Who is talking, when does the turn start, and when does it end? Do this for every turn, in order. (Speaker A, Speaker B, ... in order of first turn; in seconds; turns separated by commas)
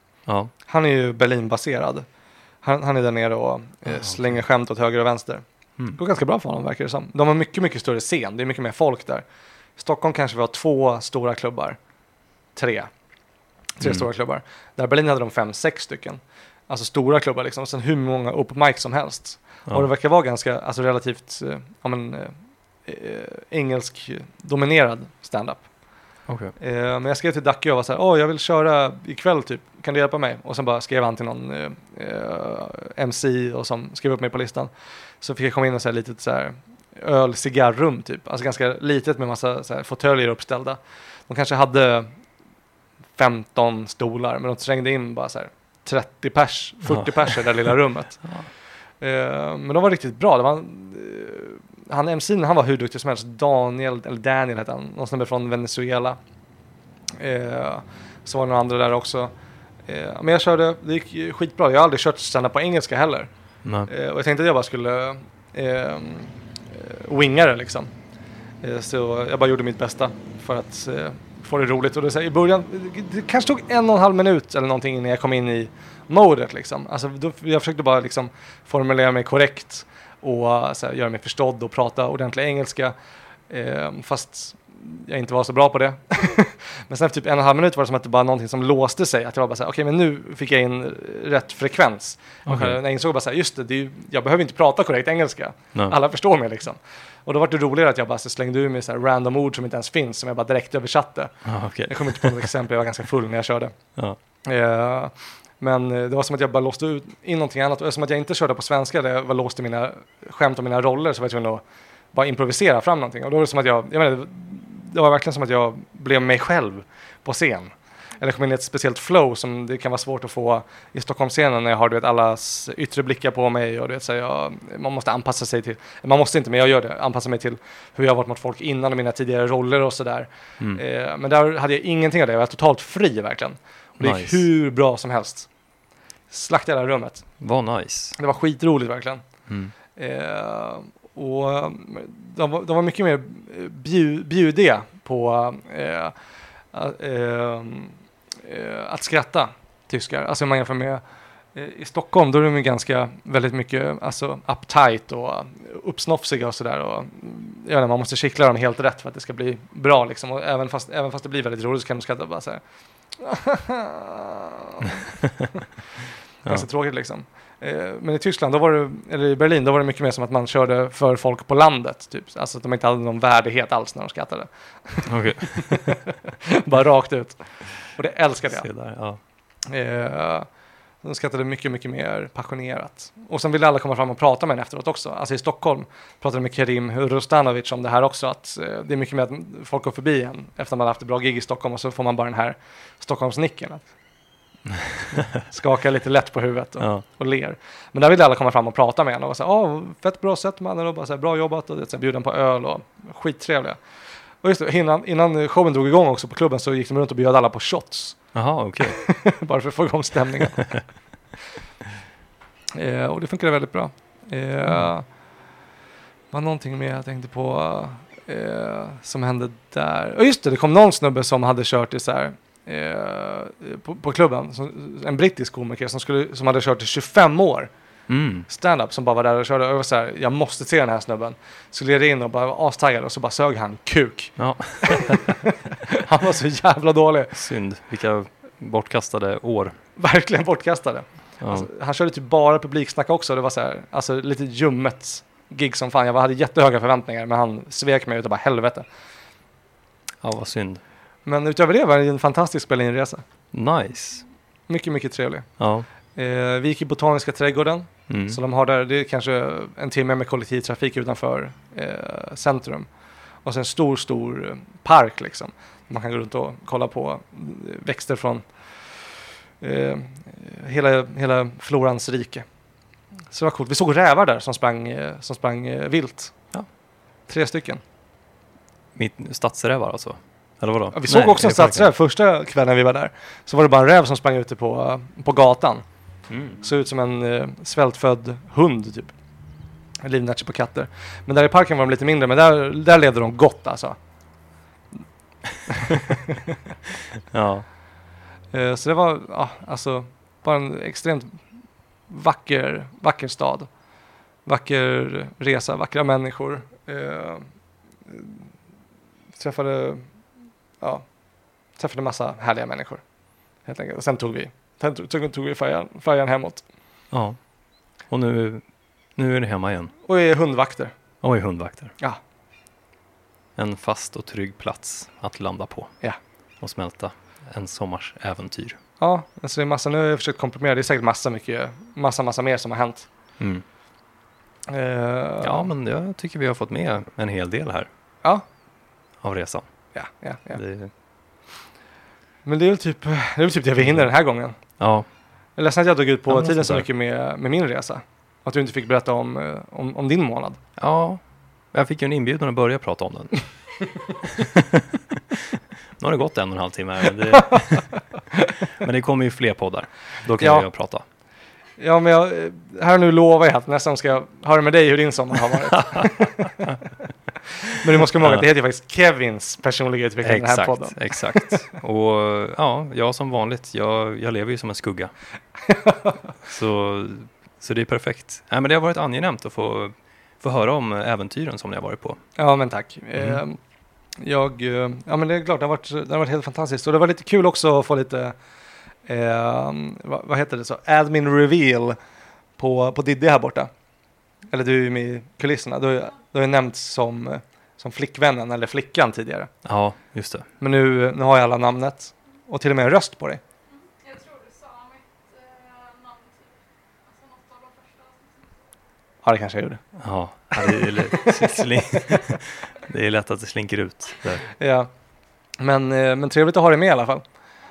Speaker A: 0.3-0.5, Speaker B: 0.7-2.1, Speaker B: 2.6-9.2, Speaker A: 3.9-4.2, Speaker B: 9.8-11.8, Speaker B: 12.6-12.9, Speaker B: 13.8-22.4, Speaker B: 22.9-25.7, Speaker A: 26.3-26.5, Speaker B: 26.6-42.1, Speaker B: 43.2-48.2, Speaker A: 46.9-47.7, Speaker B: 49.0-56.2, Speaker B: 57.1-59.3, Speaker B: 59.9-63.3, Speaker A: 63.6-63.9, Speaker B: 63.9-67.9, Speaker B: 68.6-82.9, Speaker B: 83.5-103.7, Speaker A: 92.5-92.8, Speaker A: 101.4-102.5, Speaker B: 104.5-111.6, Speaker B: 112.1-135.5, Speaker A: 134.0-134.4, Speaker B: 136.3-137.3, Speaker A: 137.4-138.2, Speaker B: 138.2-139.2, Speaker A: 139.5-139.7, Speaker B: 139.9-146.1, Speaker B: 146.7-151.0, Speaker B: 151.6-162.6, Speaker B: 163.2-165.6, Speaker B: 166.4-178.7, Speaker A: 175.1-176.0, Speaker A: 178.5-179.2, Speaker B: 179.7-180.5, Speaker B: 181.0-193.9, Speaker B: 195.4-203.8, Speaker B: 204.4-208.2, Speaker A: 208.3-209.0, Speaker B: 208.8-210.7, Speaker B: 212.7-215.1, Speaker B: 216.3-227.7, Speaker A: 228.1-228.5, Speaker B: 228.5-237.4, Speaker A: 234.4-235.4, Speaker A: 237.3-239.8, Speaker B: 240.0-248.8, Speaker A: 241.4-241.7, Speaker A: 250.2-250.8, Speaker B: 251.3-253.2, Speaker A: 253.5-254.2, Speaker B: 254.7-255.5, Speaker A: 255.6-255.9, Speaker B: 256.1-262.9, Speaker A: 258.1-258.4, Speaker B: 263.4-268.4, Speaker B: 269.6-272.4, Speaker B: 273.3-276.3, Speaker B: 277.3-277.8, Speaker A: 278.9-281.9, Speaker B: 280.9-285.8, Speaker A: 286.3-286.6, Speaker B: 286.6-289.1, Speaker B: 290.0-294.0, Speaker B: 295.7-296.6, Speaker A: 297.3-297.6, Speaker B: 298.5-301.4, Speaker B: 302.1-303.7, Speaker B: 304.4-307.5, Speaker B: 308.1-308.4, Speaker B: 309.4-310.1, Speaker B: 311.8-313.0, Speaker B: 313.6-316.6, Speaker A: 317.1-317.4, Speaker A: 318.1-318.6, Speaker A: 319.1-319.9, Speaker B: 320.1-320.9, Speaker A: 321.2-321.9, Speaker A: 323.6-325.9, Speaker A: 326.6-328.8, Speaker B: 329.0-333.1, Speaker A: 333.4-333.6, Speaker B: 334.7-335.7, Speaker A: 335.4-337.9, Speaker A: 339.2-339.6, Speaker B: 339.9-340.6, Speaker A: 340.6-340.9, Speaker B: 342.4-344.6, Speaker A: 344.8-345.1, Speaker B: 345.6-350.6, Speaker A: 346.3-346.9, Speaker A: 350.8-351.2, Speaker A: 351.7-353.4, Speaker A: 354.1-361.0, Speaker B: 360.4-360.7, Speaker B: 361.8-366.8, Speaker A: 365.6-366.8, Speaker B: 367.6-371.6, Speaker A: 368.0-368.4, Speaker A: 370.2-375.1, Speaker B: 375.7-376.2, Speaker A: 376.4-382.2, Speaker B: 382.4-383.6, Speaker B: 384.2-388.4, Speaker B: 389.1-392.0, Speaker B: 392.6-393.7, Speaker B: 394.5-399.5, Speaker A: 399.6-400.5, Speaker B: 400.6-403.4, Speaker C: 403.7-408.7, Speaker B: 409.2-409.8, Speaker A: 410.0-414.4, Speaker B: 410.6-412.2, Speaker B: 414.5-414.9, Speaker B: 415.6-417.2